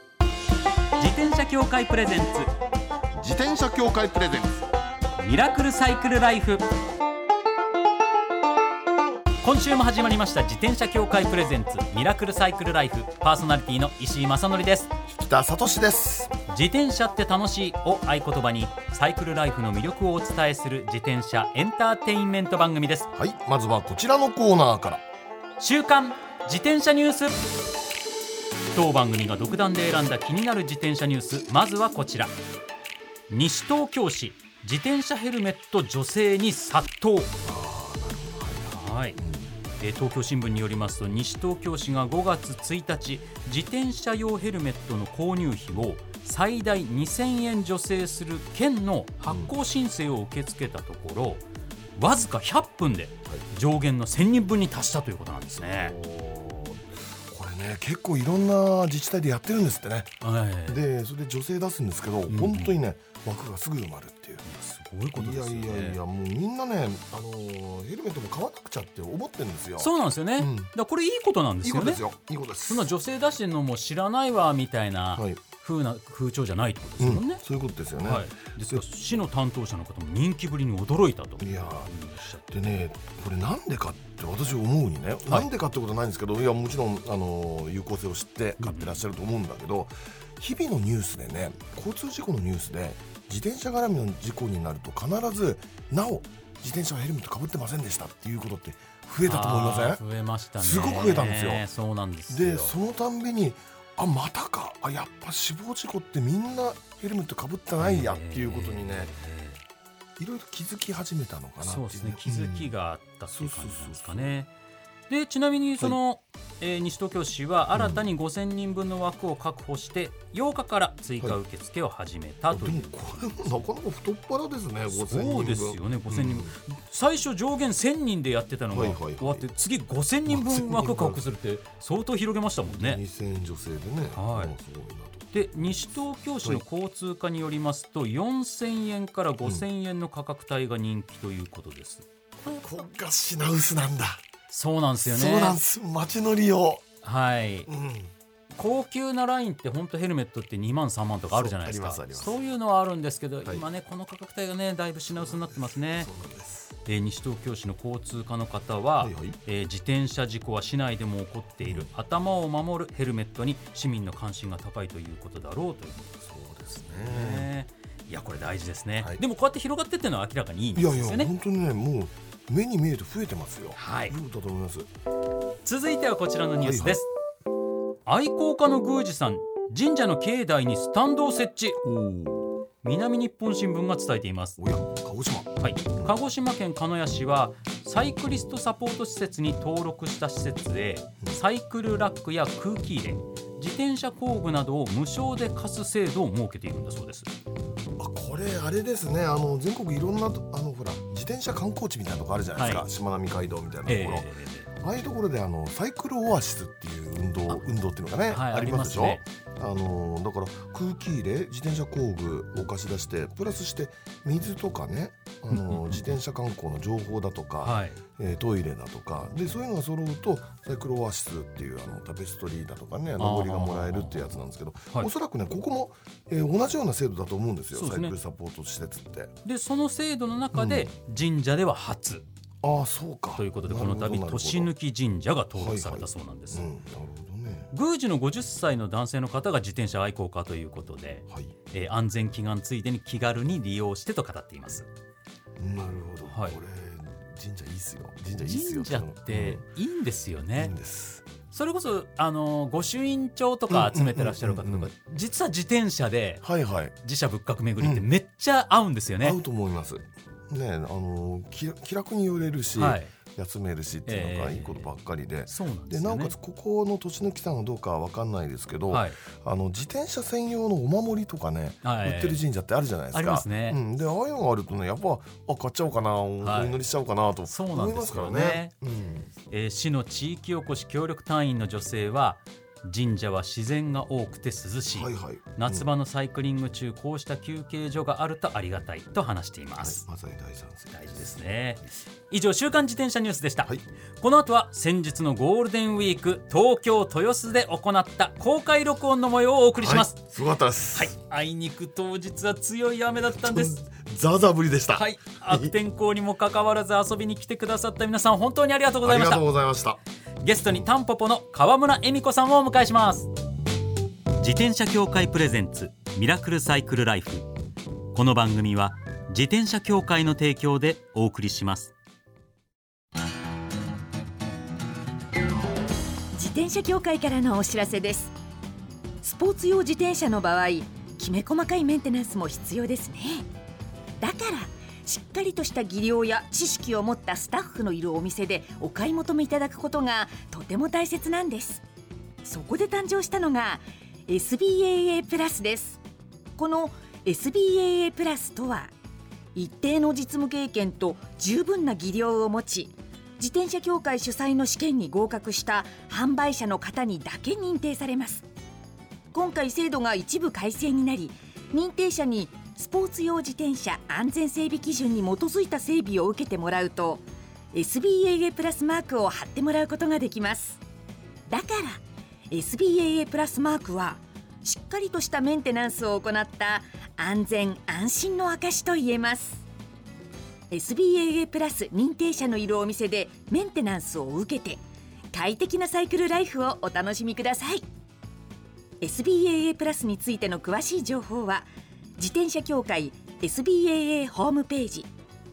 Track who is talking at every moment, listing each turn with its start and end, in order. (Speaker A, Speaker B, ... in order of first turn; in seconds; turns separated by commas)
Speaker A: 1.0-2.5, Speaker B: 3.1-4.7, Speaker A: 5.2-6.6, Speaker A: 9.4-14.9, Speaker B: 15.1-16.3, Speaker A: 16.5-23.1, Speaker B: 23.1-25.0, Speaker A: 25.6-27.4, Speaker A: 28.7-32.4, Speaker A: 33.3-37.3, Speaker B: 37.4-39.5, Speaker A: 38.7-39.2, Speaker A: 39.8-51.4, Speaker B: 49.3-49.5, Speaker A: 52.0-55.9, Speaker B: 55.6-60.1, Speaker A: 60.2-60.8, Speaker B: 60.7-64.4, Speaker A: 62.3-62.7, Speaker A: 64.4-66.0, Speaker B: 65.1-70.7, Speaker A: 69.8-72.0, Speaker B: 71.6-72.9, Speaker A: 72.7-77.4, Speaker B: 75.1-75.4, Speaker B: 77.0-78.8, Speaker A: 78.0-82.4, Speaker B: 81.4-100.0, Speaker A: 88.6-89.0, Speaker A: 99.2-102.7, Speaker B: 100.6-101.7, Speaker B: 102.3-109.1, Speaker A: 107.8-109.6, Speaker B: 110.2-112.7, Speaker A: 111.6-114.5, Speaker B: 113.3-114.3, Speaker A: 115.1-123.6, Speaker B: 117.7-118.1, Speaker B: 122.5-126.5, Speaker A: 124.9-133.0, Speaker B: 128.7-129.5, Speaker B: 130.3-131.2, Speaker B: 132.7-135.3, Speaker A: 134.1-134.5, Speaker A: 135.3-142.1, Speaker B: 142.4-144.2, Speaker A: 144.5-145.6, Speaker B: 145.0-146.8, Speaker A: 147.0-147.7, Speaker B: 147.7-148.1, Speaker A: 148.5-156.1, Speaker B: 151.3-152.4, Speaker B: 155.1-156.7, Speaker A: 156.8-166.2, Speaker B: 159.0-159.4, Speaker B: 161.6-161.9, Speaker B: 166.2-167.5, Speaker A: 166.7-171.3, Speaker B: 170.7-174.9, Speaker A: 173.8-174.1, Speaker A: 175.6-177.1, Speaker B: 176.6-177.0, Speaker A: 178.1-181.8, Speaker B: 181.8-182.5, Speaker A: 182.8-184.6, Speaker B: 184.6-186.1, Speaker A: 185.6-197.3, Speaker B: 198.0-204.3, Speaker A: 202.6-202.8, Speaker A: 203.9-204.7, Speaker B: 204.8-229.3, Speaker A: 208.3-209.2, Speaker A: 215.5-216.2, Speaker A: 217.6-218.0, Speaker A: 223.2-224.2, Speaker A: 227.7-228.1, Speaker A: 229.4-232.2, Speaker B: 230.5-230.9, Speaker B: 232.6-234.7, Speaker A: 233.4-236.7, Speaker B: 235.5-237.7, Speaker A: 237.7-244.9, Speaker B: 241.3-241.5, Speaker B: 245.6-249.6, Speaker A: 246.3-246.6, Speaker A: 248.4-250.7, Speaker B: 250.5-251.3, Speaker A: 251.5-256.4, Speaker B: 253.7-254.9, Speaker B: 256.4-257.0, Speaker A: 257.0-259.4, Speaker B: 257.8-258.1, Speaker B: 259.2-279.3, Speaker A: 262.8-263.1, Speaker A: 264.1-264.9, Speaker A: 265.5-266.3, Speaker A: 268.9-269.2, Speaker A: 271.8-272.4, Speaker A: 273.1-273.8, Speaker A: 276.4-276.8, Speaker A: 277.5-278.7, Speaker A: 279.5-290.0, Speaker B: 284.9-285.9, Speaker B: 289.8-291.3, Speaker A: 290.9-300.2, Speaker B: 299.7-301.1, Speaker A: 300.9-303.8, Speaker B: 303.3-305.7, Speaker A: 304.9-309.4, Speaker B: 309.0-310.0, Speaker A: 310.4-313.3, Speaker A: 314.4-317.5, Speaker A: 318.1-321.9, Speaker C: 326.3-328.3, Speaker C: 329.2-333.5, Speaker C: 334.2-341.8, Speaker C: 342.4-346.0, Speaker C: 346.6-348.9, Speaker C: 349.5-358.4, Speaker C: 359.3-370.8, Speaker C: 371.5-379.6, Speaker C: 380.7-384.8, Speaker C: 385.3-387.8, Speaker C: 389.0-395.1